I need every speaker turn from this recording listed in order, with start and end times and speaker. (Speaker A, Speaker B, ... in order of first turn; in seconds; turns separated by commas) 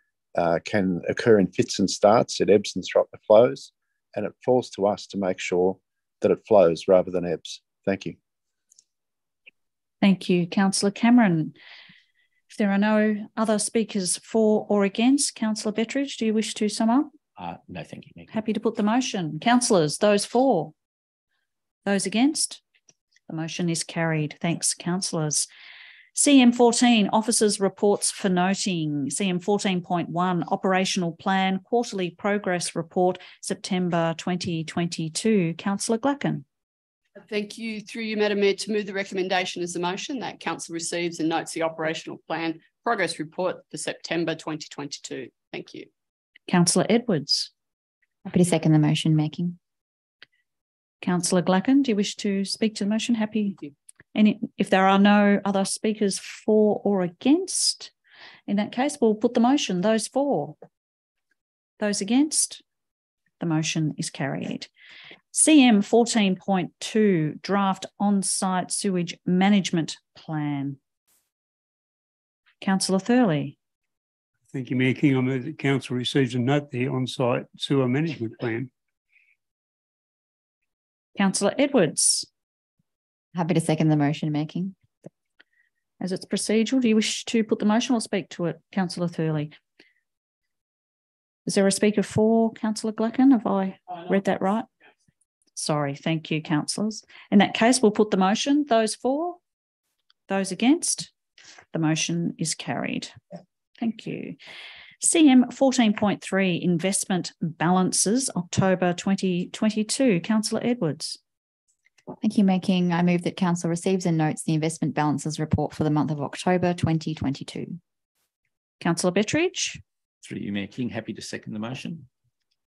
Speaker A: 0.3-8.2, Speaker B: 10.0-11.5, Speaker B: 12.5-17.1, Speaker C: 17.4-18.4, Speaker B: 18.3-20.7, Speaker B: 21.8-22.6, Speaker B: 23.3-25.5, Speaker B: 26.1-36.4, Speaker D: 37.2-45.9, Speaker B: 46.5-47.5, Speaker E: 48.2-49.6, Speaker B: 51.0-53.6, Speaker B: 54.1-57.9, Speaker B: 58.5-60.6, Speaker B: 61.8-62.6, Speaker B: 63.4-64.7, Speaker B: 65.3-70.8, Speaker B: 72.6-73.5, Speaker F: 74.5-78.7, Speaker B: 81.2-82.3, Speaker E: 83.3-84.7, Speaker B: 86.0-89.5, Speaker B: 91.5-94.7, Speaker B: 95.5-99.4, Speaker B: 100.3-101.1, Speaker B: 101.7-103.1, Speaker B: 103.8-104.4, Speaker B: 105.0-111.2, Speaker E: 112.2-117.8, Speaker B: 118.8-119.8, Speaker C: 120.2-122.1